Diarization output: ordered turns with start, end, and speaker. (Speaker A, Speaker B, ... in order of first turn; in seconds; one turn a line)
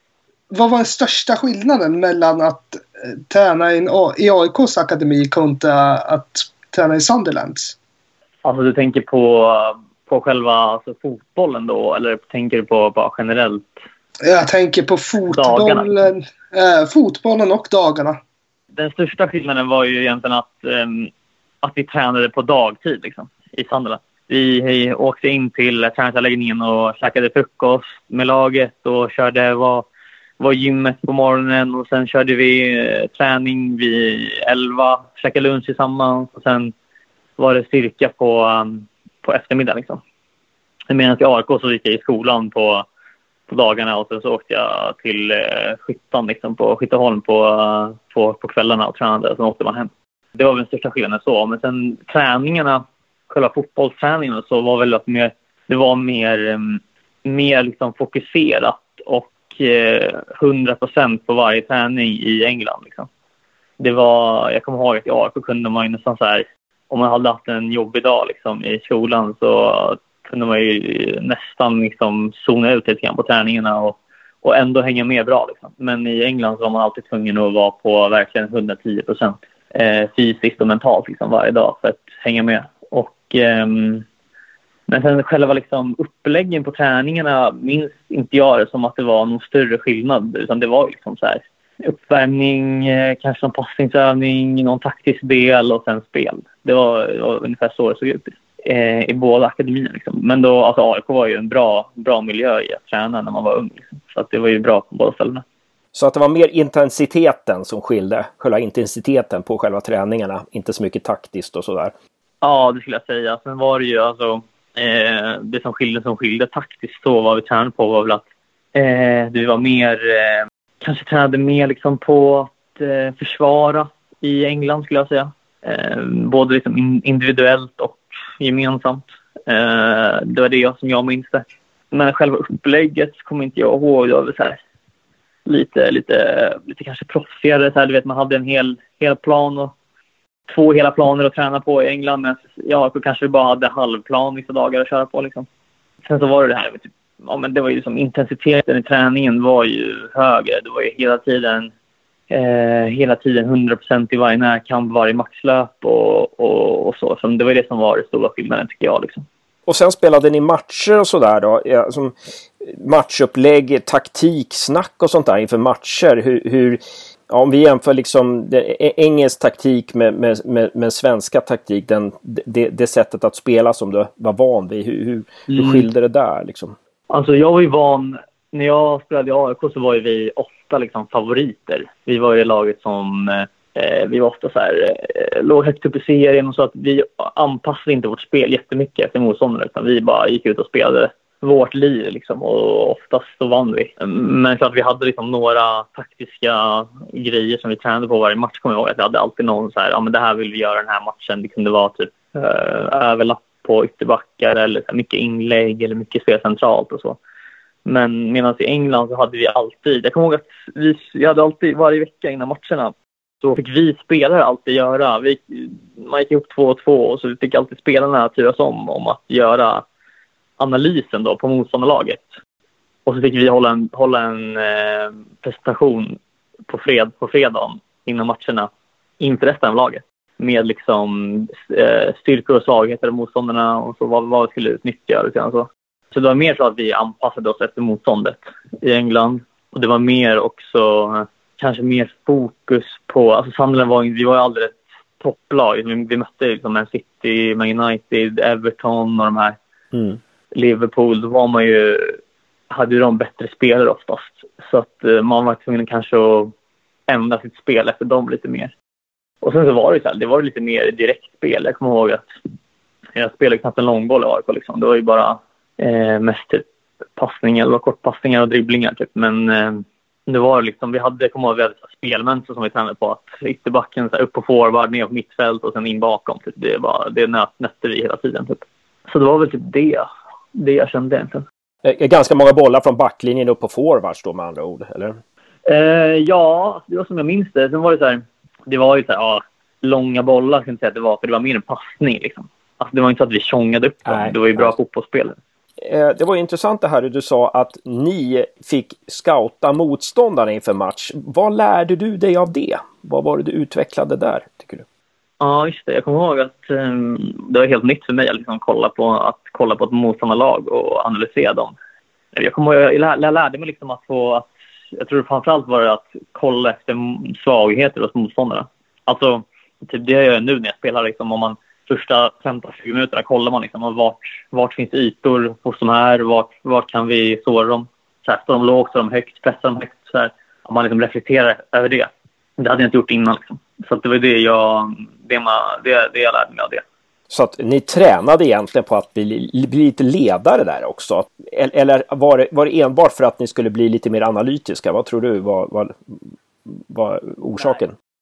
Speaker A: 0.5-7.7
Speaker B: 8.4-13.7
Speaker A: 14.2-18.2
Speaker B: 15.3-15.9
Speaker B: 18.8-21.1
Speaker B: 21.6-29.9
Speaker B: 30.4-36.7
Speaker B: 37.4-40.0
Speaker B: 40.9-42.9
Speaker B: 43.5-63.1
Speaker B: 63.8-84.0
Speaker B: 84.9-105.4
Speaker C: 105.9-111.9
Speaker B: 112.4-118.2
Speaker B: 118.8-134.6
Speaker B: 135.5-139.7
Speaker B: 140.5-145.5
Speaker B: 146.1-151.7
Speaker B: 152.3-159.2
Speaker C: 159.7-176.8
Speaker B: 175.5-175.9
Speaker B: 177.1-207.2
Speaker B: 207.8-219.8
Speaker B: 220.6-222.2
Speaker B: 223.1-226.2
Speaker B: 226.7-249.6
Speaker B: 250.5-252.2
Speaker B: 252.7-256.5
Speaker B: 257.1-258.7
Speaker B: 259.4-262.2
Speaker B: 263.2-266.6
Speaker B: 267.2-281.4
Speaker C: 281.9-285.2
Speaker B: 285.6-295.4
Speaker C: 294.1-294.7
Speaker C: 295.8-304.9
Speaker B: 305.4-311.8
Speaker B: 312.3-336.8
Speaker C: 337.3-346.1
Speaker C: 346.7-347.9